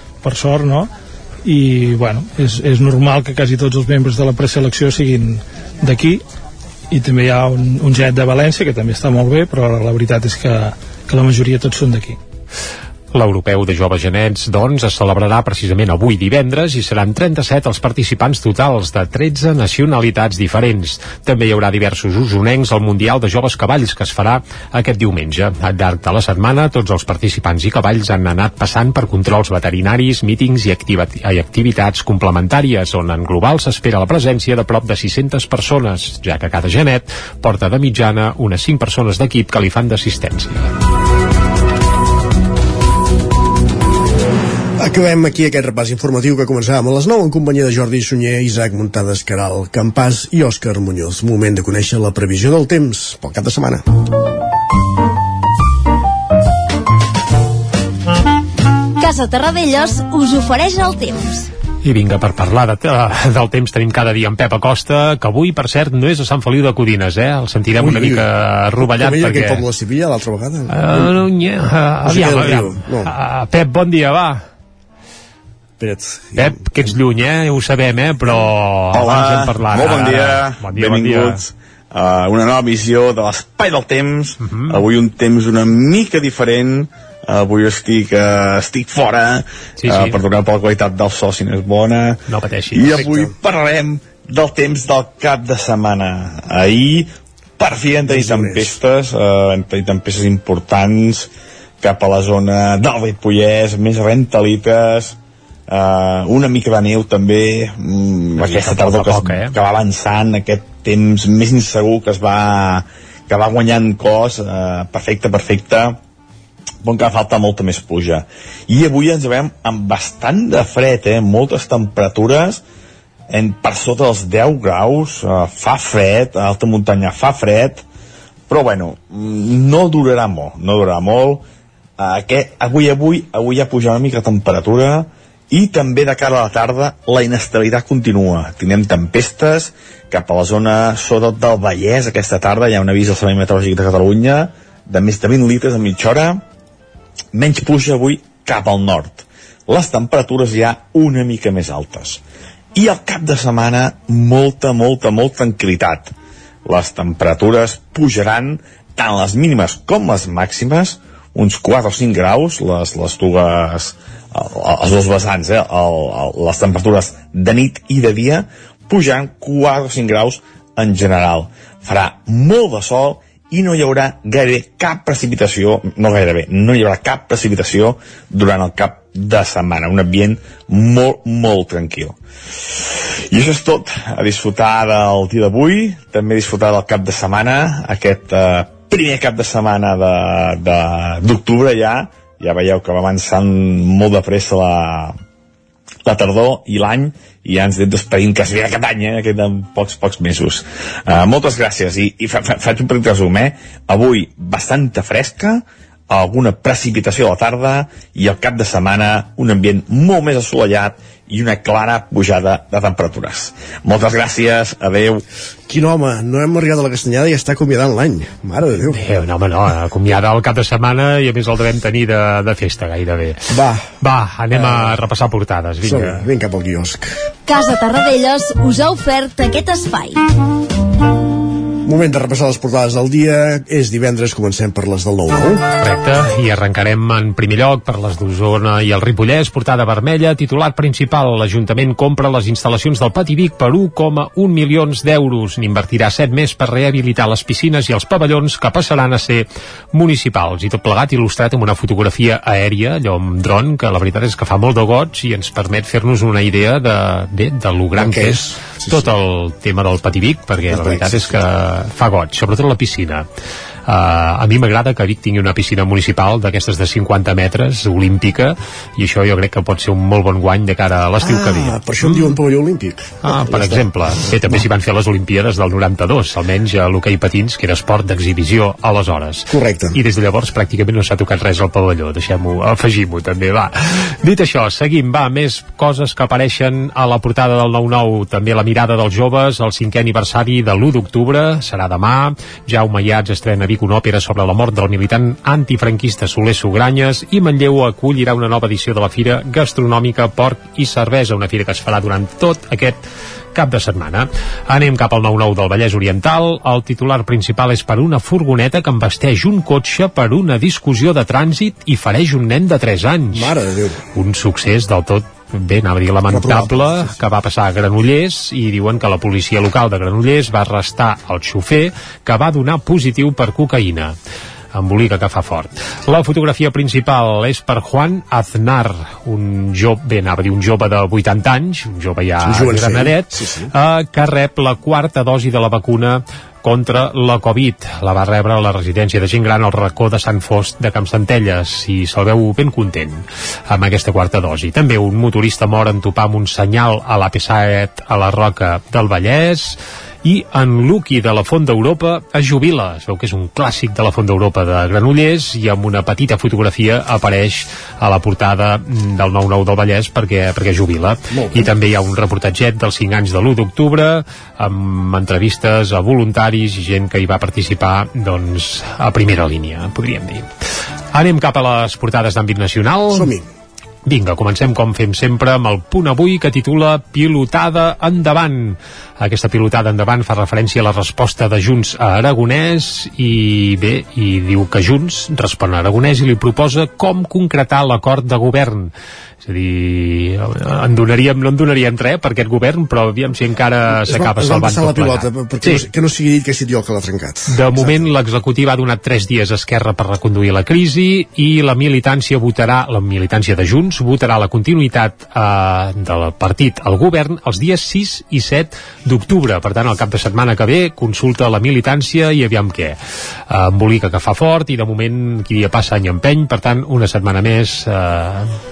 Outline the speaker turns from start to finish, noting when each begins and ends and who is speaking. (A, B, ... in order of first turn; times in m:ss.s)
0:00.2-0:00.9 A
0:01.4-0:06.2 A
0:06.9-0:12.2 A
0:13.1-0:40.7 B
0:44.8-0:53.8 C
0:59.0-1:01.5 D
1:01.8-1:09.6 B
1:07.8-1:08.3 C
1:08.8-1:11.2 C
1:10.7-1:14.4 B
1:12.0-1:13.1 C
1:15.8-1:16.9 C
1:16.4-1:21.4 B
1:18.9-1:41.3 E
1:24.4-1:24.8 B
1:29.8-1:30.2 B
1:32.3-1:33.0 B
1:32.9-1:33.3 C
1:38.0-1:38.8 C
1:41.8-1:45.2 E
1:45.7-1:56.0 E
1:48.4-1:49.6 B
1:56.8-2:02.6 E
2:03.3-2:07.8 E
2:08.5-2:11.4 E
2:12.0-2:26.4 E
2:27.3-2:32.2 E
2:32.7-2:36.1 E
2:36.6-3:02.2 E
3:03.3-3:15.2 E
3:16.0-3:35.2 E
3:35.7-3:39.0 C
3:38.9-3:43.4 B
3:43.5-3:43.9 C
3:44.0-3:46.2 B
3:44.5-3:45.0 C
3:45.8-3:47.1 C
3:47.5-3:50.2 D
3:51.8-3:55.6 C
3:55.8-4:23.3 B
4:18.0-4:19.1 C
4:20.7-4:21.3 C
4:23.9-4:32.4 B
4:31.2-4:34.6 C
4:33.2-5:03.0 B
4:39.5-4:40.0 C
5:03.5-5:13.5 B
5:13.3-5:14.0 C
5:14.1-5:24.1 B
5:16.3-5:17.2 C
5:24.7-6:10.5 B
5:32.4-5:33.7 C
6:11.1-6:13.3 B
6:13.1-6:13.4 C
6:14.1-6:28.9 B
6:29.4-6:35.8 B
6:33.9-6:38.1 C
6:37.5-6:53.0 B
6:53.5-6:58.5 B